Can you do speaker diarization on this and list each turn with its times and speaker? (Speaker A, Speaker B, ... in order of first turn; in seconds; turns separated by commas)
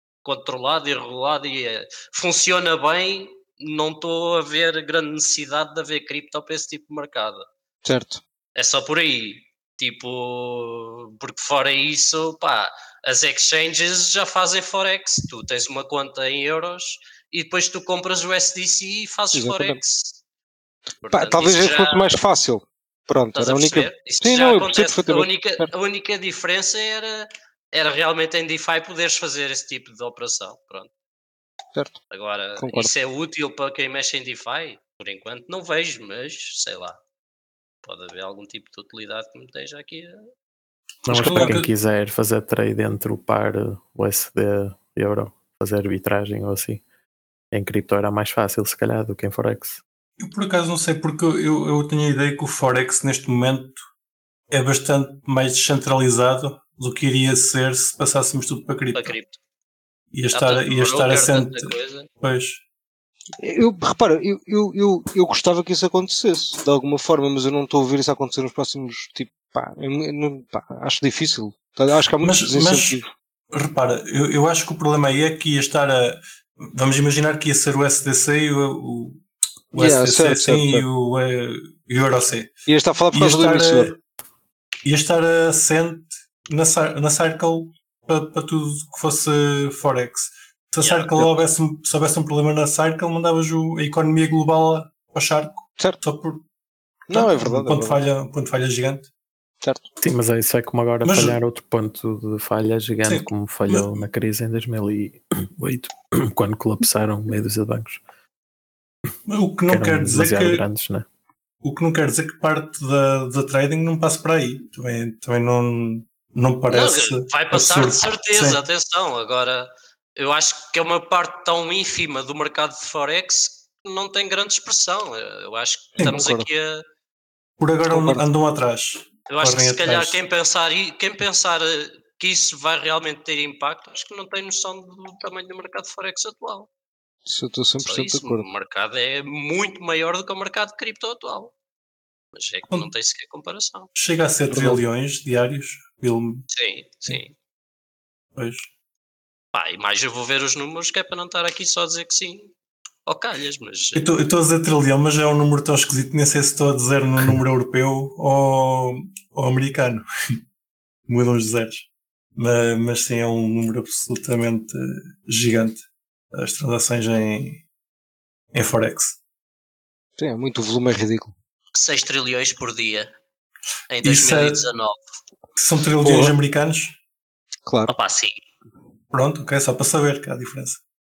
Speaker A: 0.2-7.5, Speaker B: 7.8-8.2, Speaker A: 8.6-20.2, Speaker B: 19.3-19.8, Speaker A: 21.0-22.1, Speaker B: 21.1-25.7, Speaker A: 23.4-30.9, Speaker A: 32.1-37.0, Speaker B: 32.6-32.9, Speaker A: 37.8-40.2, Speaker C: 41.1-41.7, Speaker D: 41.1-46.8, Speaker B: 41.1-41.6, Speaker D: 47.5-49.8, Speaker C: 50.2-53.8, Speaker C: 54.5-59.2, Speaker A: 58.9-59.4, Speaker C: 60.1-62.6, Speaker A: 60.3-62.1, Speaker B: 63.4-73.1, Speaker C: 72.2-79.2, Speaker C: 79.7-82.5, Speaker B: 79.8-80.8, Speaker B: 82.7-84.0, Speaker C: 83.1-84.0, Speaker C: 84.8-96.4, Speaker A: 90.8-91.2, Speaker B: 97.1-98.0, Speaker C: 97.1-99.1, Speaker B: 99.6-99.9, Speaker D: 100.0-108.0, Speaker C: 101.0-101.4, Speaker C: 103.0-104.1, Speaker C: 109.3-110.7, Speaker D: 109.7-111.1, Speaker C: 111.6-118.6, Speaker A: 116.7-126.8, Speaker B: 126.0-126.5, Speaker C: 127.6-130.2, Speaker B: 127.9-128.2, Speaker A: 129.3-136.7, Speaker B: 137.3-138.4, Speaker A: 137.9-141.5, Speaker A: 142.3-143.9, Speaker C: 144.0-146.4, Speaker B: 144.5-144.8, Speaker A: 146.5-147.3, Speaker C: 148.3-148.7, Speaker A: 149.5-152.5, Speaker A: 153.1-154.1, Speaker C: 153.9-160.1, Speaker C: 161.1-167.6, Speaker C: 168.5-169.2, Speaker B: 170.2-171.3, Speaker A: 171.7-173.1, Speaker A: 173.9-175.0, Speaker C: 174.0-174.7, Speaker C: 175.6-177.0, Speaker B: 176.0-176.3, Speaker B: 177.7-177.9, Speaker A: 177.9-178.4, Speaker C: 179.1-180.8